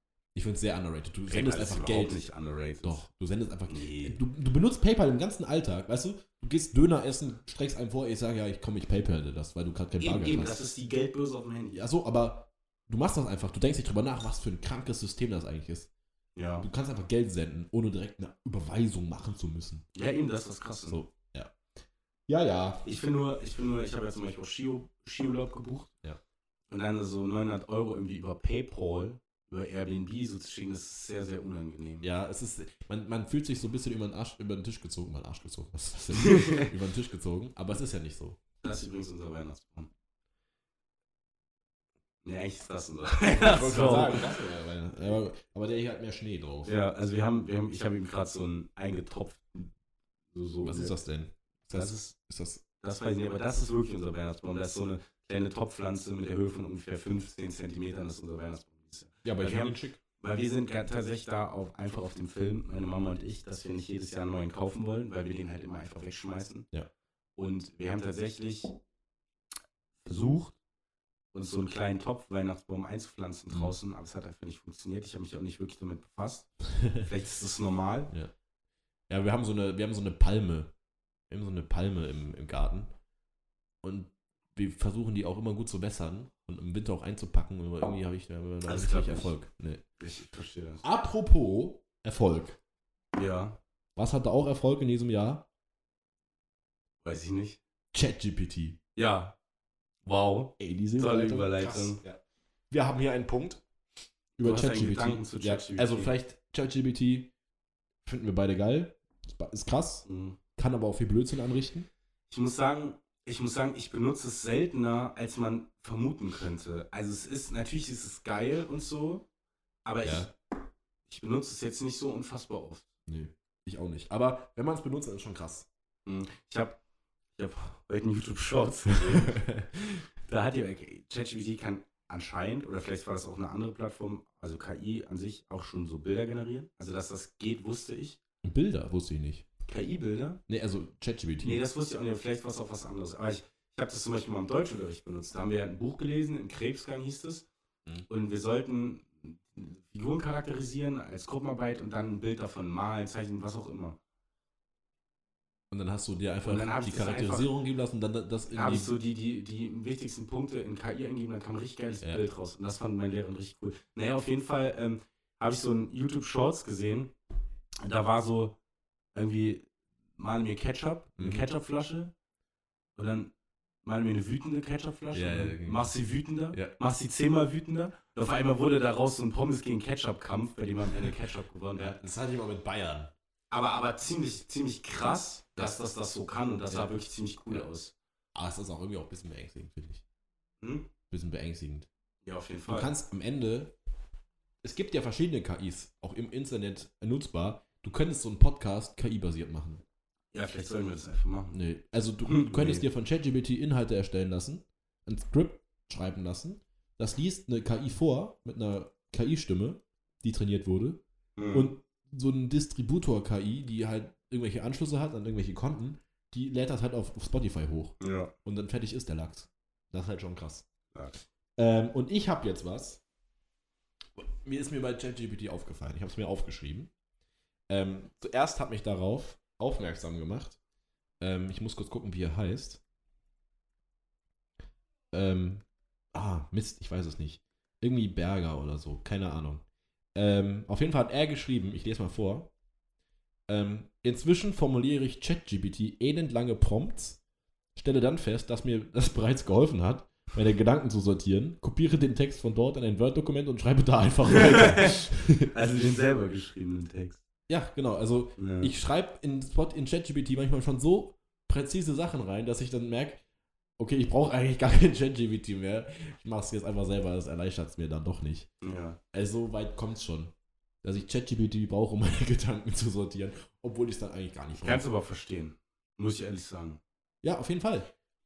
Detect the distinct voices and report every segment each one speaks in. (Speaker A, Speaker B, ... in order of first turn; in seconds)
Speaker A: 0.3-2.2, 2.8-10.6, 11.7-15.9, 16.6-19.9, 20.9-21.5, 22.3-22.9, 32.0-38.4, 43.3-46.8, 50.6-52.6, 59.2-60.0, 73.5-73.8, 76.8-77.0, 79.1-80.7, 81.3-82.9, 83.8-89.8, 90.8-92.6, 94.0-95.5, 97.9-98.8, 100.6-103.6, 104.4-107.3, 108.0-110.0, 110.6-111.9, 120.0-120.3, 123.1-125.7, 129.1-129.7, 138.4-139.4, 140.5-141.6, 155.7-158.9, 162.0-162.3, 171.2-171.4, 175.1-175.9, 181.8-183.1, 186.7-187.0, 188.3-190.0, 191.1-191.9, 192.7-193.7, 194.6-199.8, 201.5-211.0, 211.5-220.7, 221.6-223.0, 224.2-226.9, 227.7-230.6, 231.2-232.8, 235.1-239.6, 240.1-242.5, 243.5-247.2, 247.8-255.5, 257.5-263.2, 263.8-268.5, 269.1-274.9, 277.2-277.9
Speaker B: 1.3-3.0, 3.7-4.2, 10.0-11.8, 16.4-16.7, 19.9-21.0, 22.8-25.9, 26.7-32.1, 36.2-36.7, 38.6-39.9, 42.2-44.4, 46.6-49.7, 50.3-51.0, 51.7-52.1, 52.8-66.7, 67.3-68.8, 70.0-70.6, 71.3-78.1, 88.6-89.3, 90.0-90.8, 93.1-93.6, 97.0-97.6, 99.0-99.3, 100.0-102.0, 104.4-106.1, 110.0-110.4, 112.3-119.2, 119.8-120.3, 121.1-122.9, 126.0-126.8, 127.3-129.5, 130.3-138.2, 139.7-140.4, 141.4-147.5, 148.1-154.0, 156.4-157.5, 158.5-167.1, 167.8-168.6, 169.1-172.1, 172.9-173.3, 173.8-182.0, 183.5-187.9, 190.6-190.9, 192.2-192.9, 200.3-201.6, 202.2-202.8, 211.3-211.7, 218.0-218.3, 220.9-221.2, 254.3-255.0, 255.5-257.2, 258.4-258.7, 268.6-269.0, 274.5-276.8